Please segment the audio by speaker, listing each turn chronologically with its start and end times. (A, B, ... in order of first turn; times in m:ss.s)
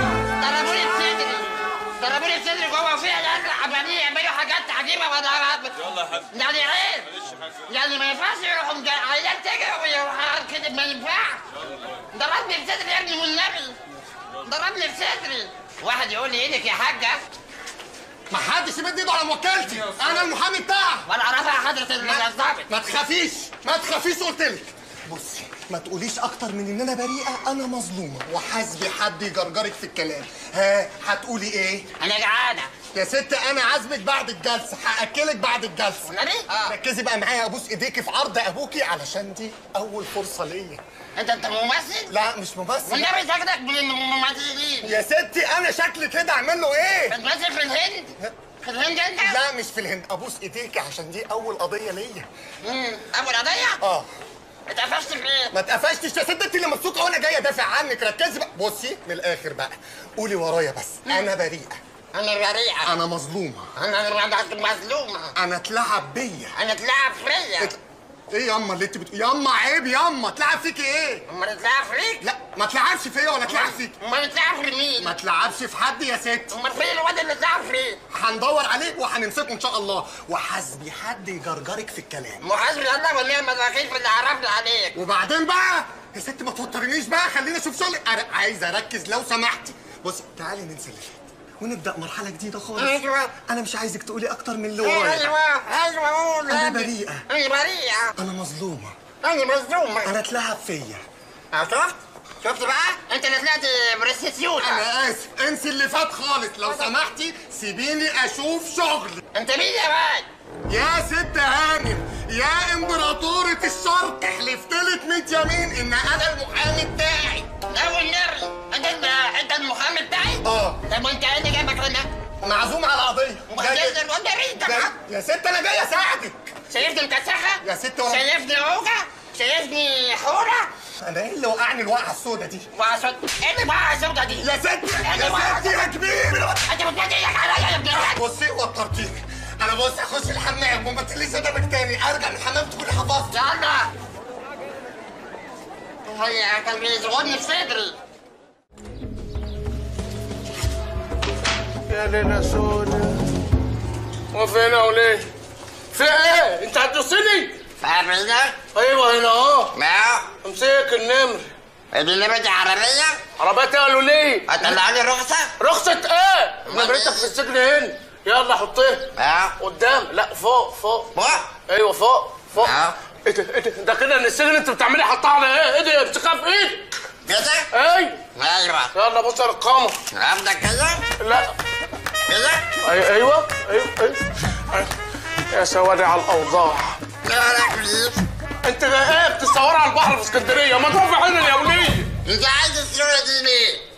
0:00.4-0:07.1 A
0:07.7-0:11.4 A
0:12.1-0:13.8 A
0:14.4-0:17.2 A
0:18.3-0:21.1 B
0:21.1-0:22.7 A
0:22.0-0:31.8 B
0:32.0-0:32.8 A
0:32.9-0:36.1 B
0:36.0-0:36.7 A
0:36.7-0:40.8 B
0:41.2-0:42.1 A
0:42.1-0:43.1 B
0:42.8-0:45.0 A
0:44.8-0:47.2 B
0:47.1-0:49.4 A
0:49.2-0:52.3 B
0:52.6-0:53.8 A
0:53.8-0:54.1 B
0:54.7-0:55.6 A
0:55.5-1:01.8 B
1:02.1-1:03.0 A
1:02.8-1:03.7 B
1:03.7-1:05.4 A
1:05.4-1:06.5 B
1:06.5-1:07.8 A
1:07.6-1:11.2 B
1:11.3-1:12.2 A
1:12.2-1:14.0 B
1:13.4-1:15.2 A
1:15.0-1:16.5 B
1:16.5-1:18.0 A
1:18.1-1:22.4 B
1:22.4-1:25.0 A
1:24.9-1:35.3 B
1:32.7-1:33.3 A
1:34.8-1:38.2 A
1:36.5-1:37.2 B
1:38.2-1:39.0 B
1:39.2-1:40.1 A
1:40.0-1:41.0 B
1:41.5-1:44.9 A
1:44.6-1:49.2 B
1:49.3-1:50.3 A
1:50.7-1:57.5 B
1:57.7-2:02.1 A
2:00.4-2:00.8 B
2:02.4-2:04.0 B
2:03.5-2:04.9 A
2:04.6-2:06.6 B
2:06.7-2:10.7 A
2:07.6-2:08.2 B
2:11.0-2:12.7 B
2:12.7-2:16.0 A
2:14.4-2:16.7 B
2:16.6-2:18.2 A
2:17.9-2:23.3 B
2:23.3-2:23.9 A
2:26.1-2:27.9 A
2:31.9-2:33.2 C
2:34.3-2:35.3 C
2:35.9-2:37.6 C
2:37.8-2:38.6 A
2:38.7-2:39.7 C
2:39.7-2:40.3 A
2:40.4-2:41.5 C
2:41.9-2:43.2 A
2:43.4-2:44.5 C
2:44.5-2:45.5 A
2:45.6-2:51.1 C
2:46.7-2:47.3 A
2:49.2-2:49.6 A
2:51.1-2:51.5 A
2:51.7-2:52.7 C
2:52.6-2:53.0 A
2:53.2-2:56.9 C
2:57.2-2:57.7 A
2:57.7-2:58.2 C
2:58.3-2:58.9 A
2:58.9-3:00.0 C
3:00.1-3:01.0 A
3:01.2-3:01.5 C
3:02.3-3:02.6 A
3:02.8-3:04.9 C
3:05.5-3:07.0 C
3:07.2-3:08.2 A
3:08.6-3:12.1 C
3:12.2-3:13.8 A